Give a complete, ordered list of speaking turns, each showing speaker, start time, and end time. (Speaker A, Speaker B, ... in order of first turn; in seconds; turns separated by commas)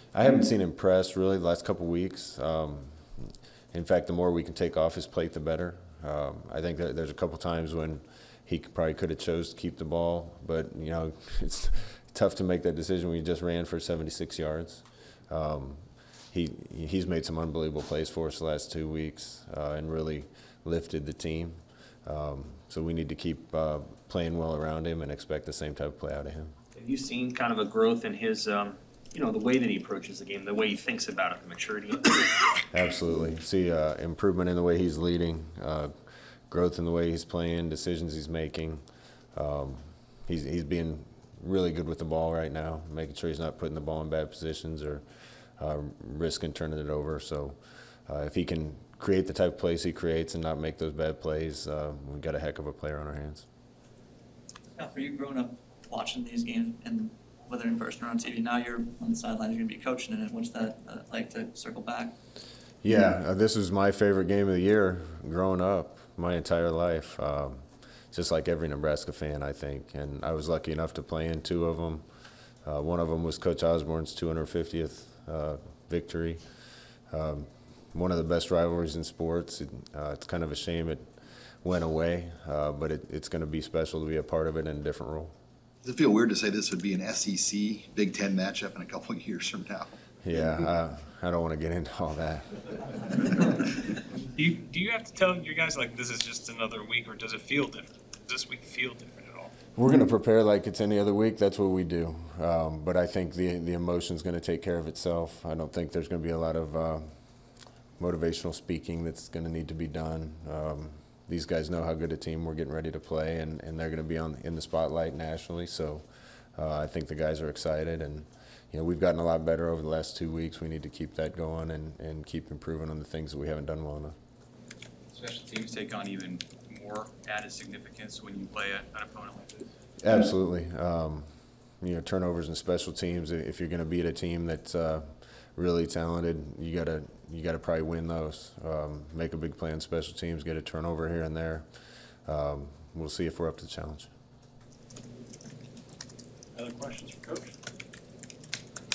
Speaker A: 0.1-26.6, Speaker B: 26.7-32.2, Speaker A: 32.7-38.8, Speaker A: 39.3-45.0, Speaker A: 45.6-53.5, Speaker C: 54.8-62.1, Speaker A: 62.8-72.0, Speaker A: 72.6-76.4, Speaker A: 77.1-85.3, Speaker D: 85.8-89.9, Speaker A: 90.2-92.8, Speaker E: 94.3-99.3, Speaker A: 99.8-107.1, Speaker A: 108.0-124.2, Speaker F: 125.1-129.7, Speaker A: 130.0-144.1